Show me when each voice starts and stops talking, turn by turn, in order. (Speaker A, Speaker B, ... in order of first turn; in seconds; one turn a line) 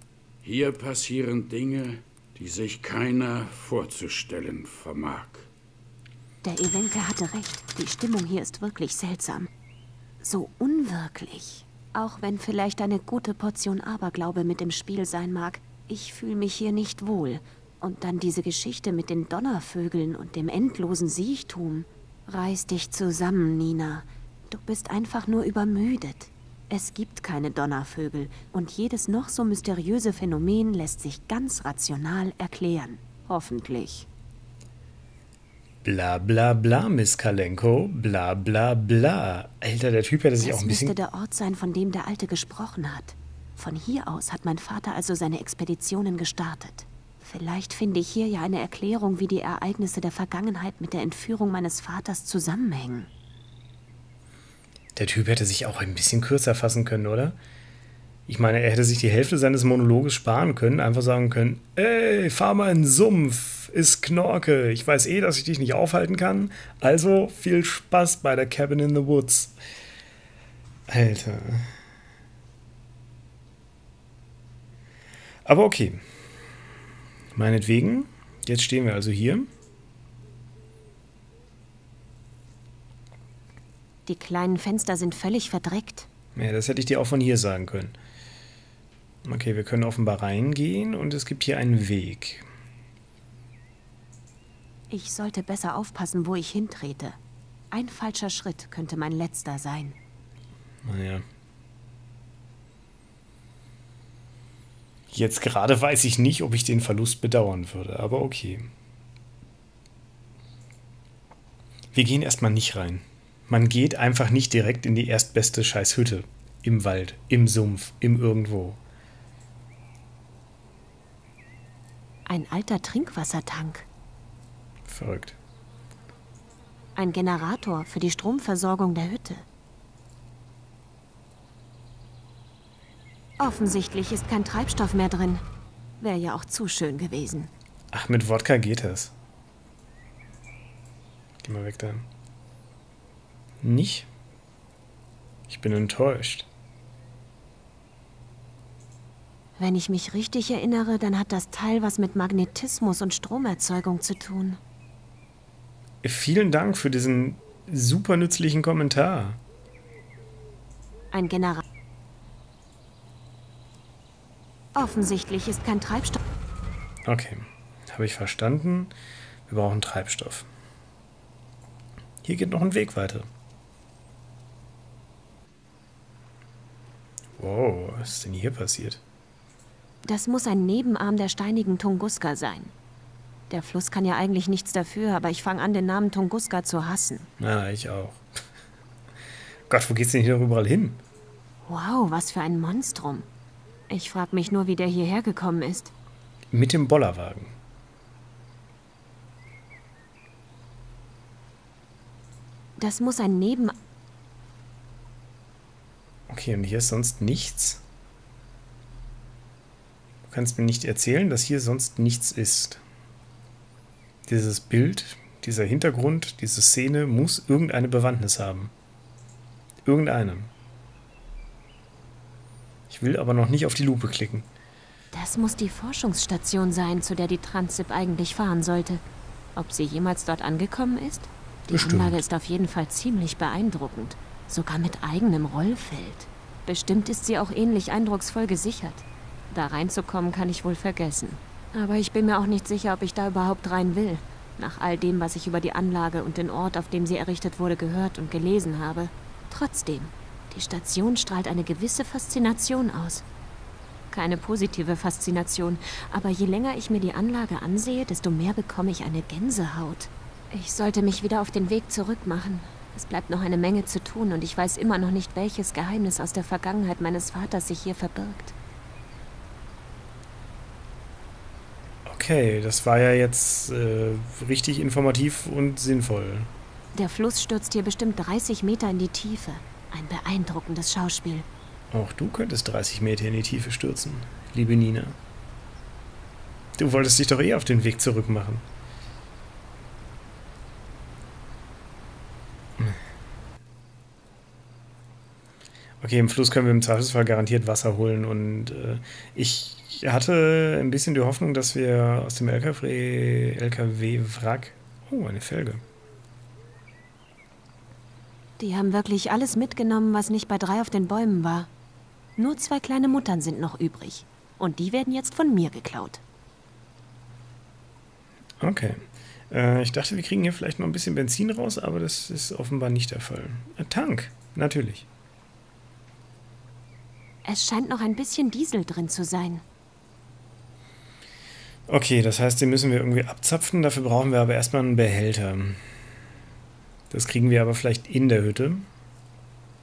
Speaker A: 0.4-5.5
Speaker B: 6.4-9.5
Speaker B: 10.2-34.1
Speaker C: 35.8-41.0
Speaker B: 40.4-53.1
Speaker C: 55.0-57.4
Speaker C: 58.3-69.6
Speaker C: 70.9-71.7
Speaker C: 75.5-76.0
Speaker C: 77.3-79.5
Speaker B: 84.1-86.1
Speaker C: 86.3-88.0
Speaker C: 89.2-92.5
Speaker B: 94.9-97.2
Speaker B: 97.7-100.0
Speaker C: 100.8-101.2
Speaker C: 105.1-108.7
Speaker C: 111.9-118.8
Speaker B: 122.3-123.9
Speaker C: 124.9-125.4
Speaker B: 127.0-129.4
Speaker B: 133.4-135.4
Speaker B: 136.0-137.5
Speaker C: 137.9-139.2
Speaker C: 141.4-142.1
Speaker C: 143.6-144.1
Speaker C: 145.5-146.5
Speaker B: 149.6-154.6
Speaker C: 156.0-159.4
Speaker B: 161.1-161.6
Speaker B: 164.8-166.2
Speaker C: 167.1-168.9
Speaker C: 169.5-170.5
Speaker C: 172.2-173.3
Speaker C: 177.4-179.0
Speaker B: 180.1-182.7
Speaker B: 183.5-187.3
Speaker C: 187.4-188.2
Speaker C: 189.7-191.0
Speaker B: 191.7-193.3
Speaker B: 193.9-195.9
Speaker C: 196.5-197.6
Speaker B: 202.8-203.8
Speaker C: 206.3-207.8
Speaker C: 210.3-212.8
Speaker C: 214.3-218.7
Speaker C: 219.8-220.5
Speaker C: 222.9-224.5
Speaker B: 225.1-229.0
Speaker B: 229.6-253.3
Speaker C: 231.7-232.2
Speaker B: 254.1-268.6
Speaker C: 272.1-276.5
Speaker B: 276.9-281.5
Speaker C: 281.9-285.2
Speaker C: 286.8-288.7
Speaker C: 296.0-305.8
Speaker B: 308.6-311.7
Speaker B: 312.4-316.2
Speaker C: 318.6-325.1
Speaker B: 327.4-329.6
Speaker C: 331.9-335.8
Speaker C: 337.1-338.9